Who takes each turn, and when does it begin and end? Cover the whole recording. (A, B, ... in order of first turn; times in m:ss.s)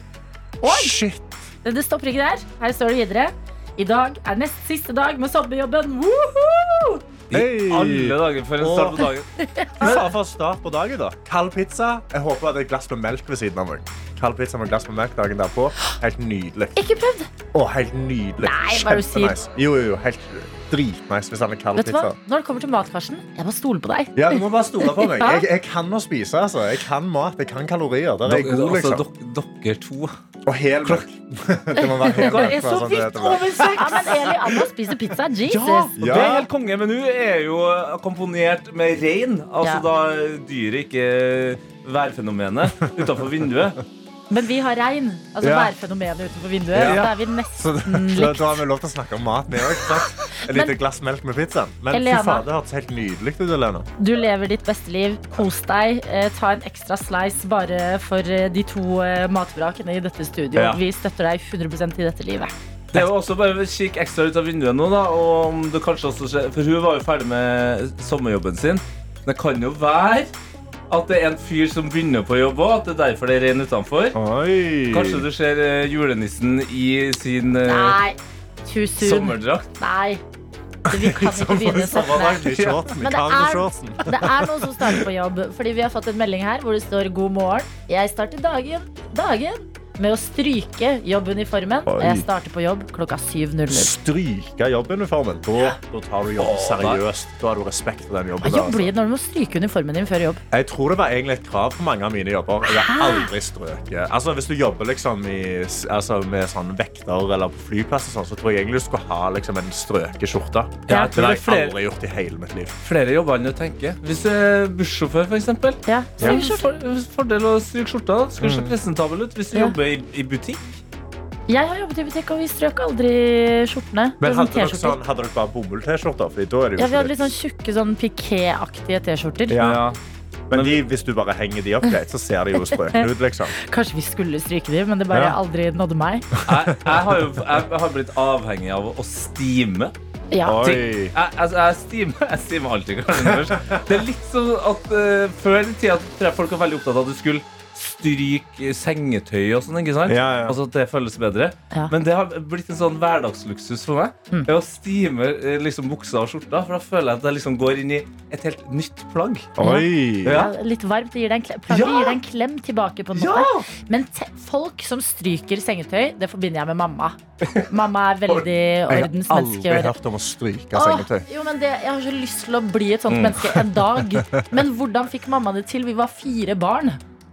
0:00.6-0:01.0 A
0:00.6-0:01.4 B
0:01.6-0:07.0 A
0:07.3-0:09.3 C
0:07.3-0:09.1 B
0:09.4-0:10.0 A
0:09.8-0:16.8 B
0:16.8-0:17.3 A
0:17.5-0:22.2 B
0:18.4-0:19.4 A
0:21.8-0:25.4 A
0:24.2-0:29.0 B
0:28.3-0:30.1 C
0:30.4-0:33.9 B
0:31.8-0:32.5 A
0:32.1-0:34.5 C
0:33.6-0:35.9 A
0:35.5-0:43.8 C
0:36.0-0:36.5 B
0:44.3-0:48.6 A
0:45.4-0:45.7 B
0:46.8-0:53.9 B
0:46.8-0:47.1 C
0:50.5-0:50.7 A
0:51.9-0:52.4 A
0:54.0-1:02.5 A
1:00.5-1:00.8 B
1:02.9-1:10.3 C
1:10.9-1:14.2 C
1:14.1-1:15.2 B
1:14.9-1:18.0 C
1:17.7-1:20.2 A
1:19.0-1:19.7 C
1:20.9-1:25.0 B
1:20.9-1:22.4 A
1:22.4-1:22.9 C
1:23.0-1:33.9 A
1:31.9-1:32.3 B
1:33.7-1:38.9 B
1:36.4-1:37.0 C
1:38.4-1:40.4 A
1:40.5-1:52.7 B
1:42.7-1:43.3 A
1:50.9-1:51.8 C
1:50.9-1:51.1 A
1:52.8-2:00.8 C
1:55.9-1:56.7 A
1:58.4-1:58.7 B
2:01.5-2:05.0 A
2:04.2-2:07.3 B
2:06.8-2:09.6 A
2:09.5-2:09.8 B
2:09.5-2:10.0 C
2:10.5-2:10.8 C
2:10.5-2:13.6 B
2:12.9-2:16.3 A
2:15.1-2:15.4 B
2:16.4-2:17.0 B
2:16.5-2:19.9 C
2:20.3-2:20.6 A
2:20.4-2:21.1 B
2:20.6-2:39.6 C
2:30.1-2:30.6 B
2:39.6-2:40.5 B
2:39.6-2:47.2 A
2:40.2-2:40.5 C
2:41.7-2:42.2 C
2:43.2-2:43.6 C
2:47.4-2:47.7 C
2:47.7-2:50.0 A
2:48.9-2:51.3 B
2:50.7-2:57.0 A
2:53.1-2:53.4 C
2:54.0-2:54.4 B